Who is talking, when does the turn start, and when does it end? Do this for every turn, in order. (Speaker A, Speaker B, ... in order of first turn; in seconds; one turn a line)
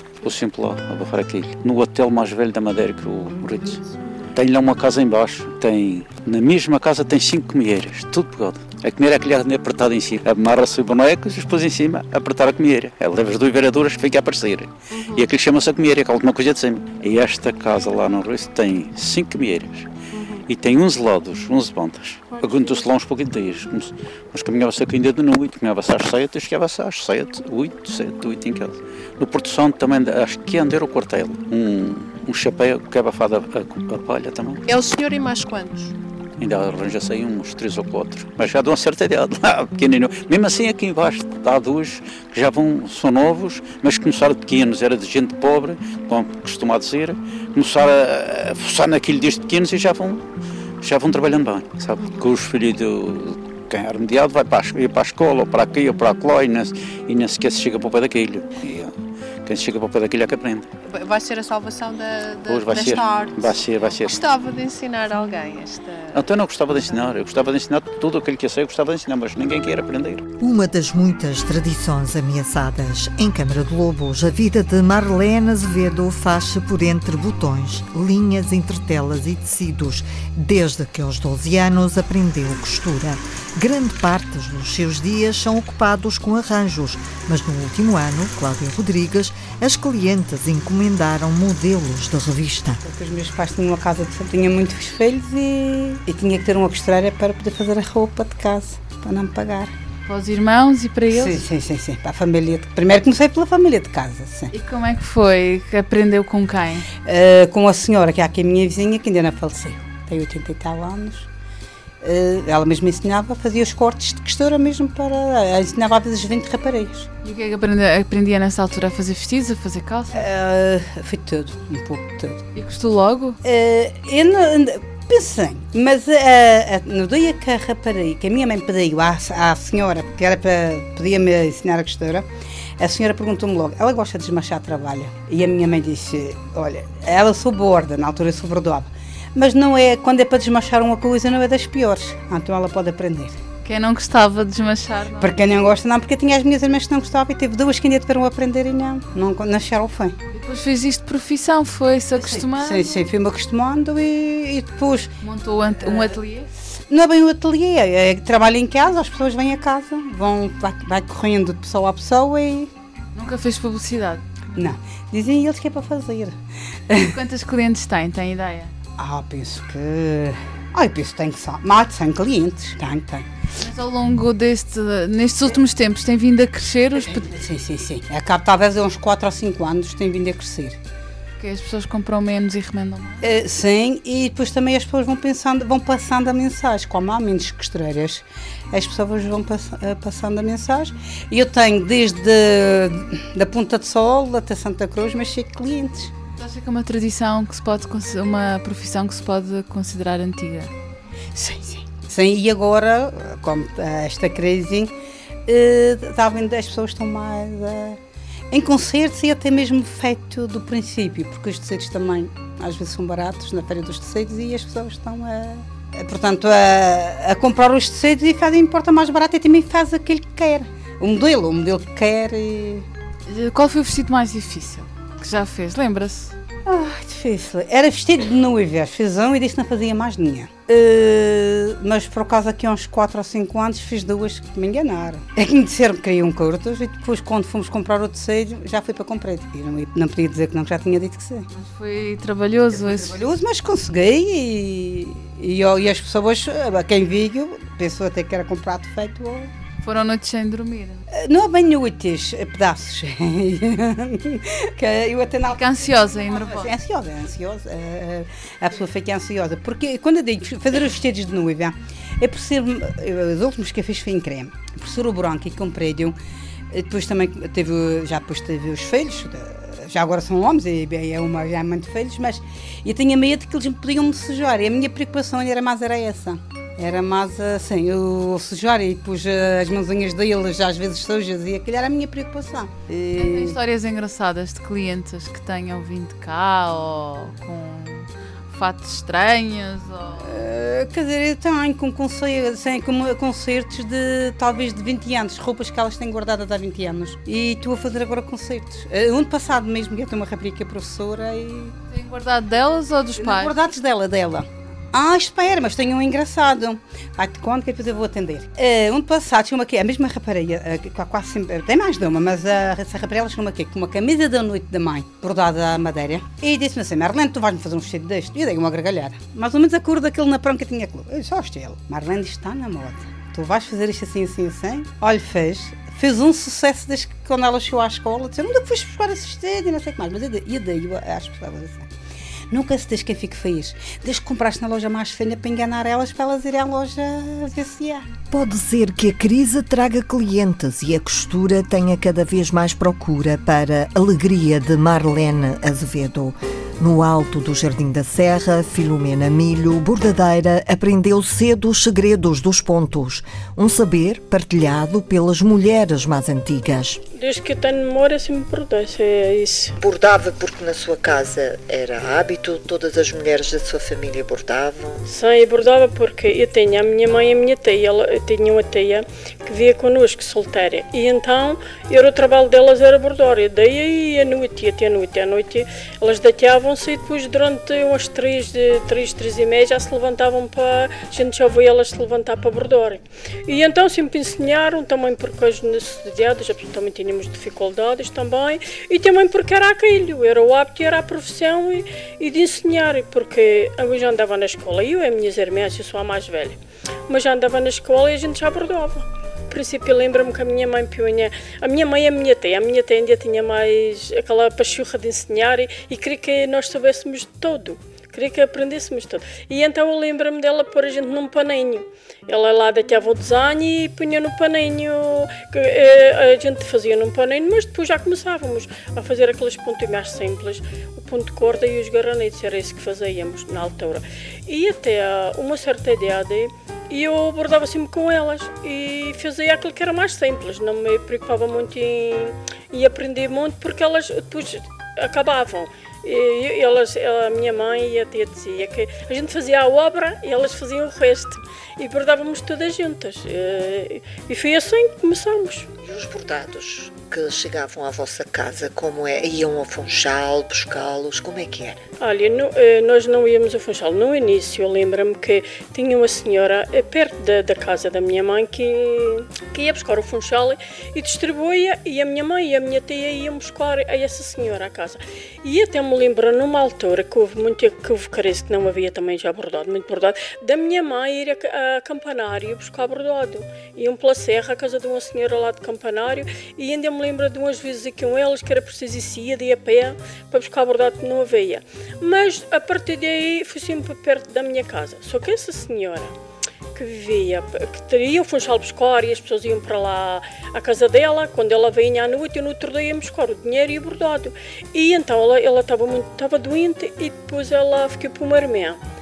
Speaker A: 0.2-3.8
Speaker B: 3.6-4.2
Speaker A: 4.3-19.9
Speaker B: 14.9-15.3
Speaker B: 20.1-20.4
Speaker A: 20.5-34.6
Speaker B: 22.3-23.0
Speaker B: 34.7-36.0
Speaker A: 36.4-50.2
Speaker A: 50.8-60.7
Speaker B: 52.0-52.3
Speaker B: 60.8-67.1
Speaker A: 62.5-64.2
Speaker A: 66.1-70.2
Speaker C: 70.4-92.8
Speaker D: 92.8-99.7
Speaker E: 100.1-101.4
Speaker D: 101.1-104.5
Speaker E: 104.5-106.9
Speaker D: 107.0-111.3
Speaker D: 112.0-117.1
Speaker E: 117.2-120.3
Speaker D: 120.1-122.4
Speaker E: 122.5-123.4
Speaker D: 123.4-132.3
Speaker D: 132.8-143.4
Speaker E: 143.6-145.3
Speaker D: 145.2-150.2
Speaker E: 150.3-152.8
Speaker D: 152.2-155.1
Speaker E: 155.2-156.5
Speaker D: 155.8-156.2
Speaker D: 156.9-162.7
Speaker E: 163.2-164.7
Speaker D: 164.6-166.4
Speaker D: 166.9-167.2
Speaker E: 167.1-168.7
Speaker D: 169.0-173.3
Speaker E: 173.6-177.3
Speaker D: 177.0-180.8
Speaker E: 181.4-183.2
Speaker D: 183.2-196.1
Speaker E: 196.4-200.7
Speaker D: 201.3-204.9
Speaker D: 205.5-208.0
Speaker D: 208.5-222.9
Speaker E: 223.3-226.4
Speaker D: 226.7-241.5
Speaker E: 241.5-243.2
Speaker D: 242.7-249.5
Speaker E: 249.8-251.0
Speaker D: 251.1-266.2
Speaker E: 255.6-256.7
Speaker D: 266.7-283.6
Speaker E: 283.2-290.3
Speaker D: 290.2-301.8
Speaker E: 301.9-303.6
Speaker D: 303.2-331.9
Speaker D: 332.5-338.1
Speaker C: 338.3-357.0
Speaker F: 357.2-359.8
Speaker G: 359.8-365.1
Speaker F: 365.1-396.6
Speaker F: 397.1-445.7
Speaker G: 445.8-451.8
Speaker F: 452.0-486.1
Speaker F: 486.8-498.8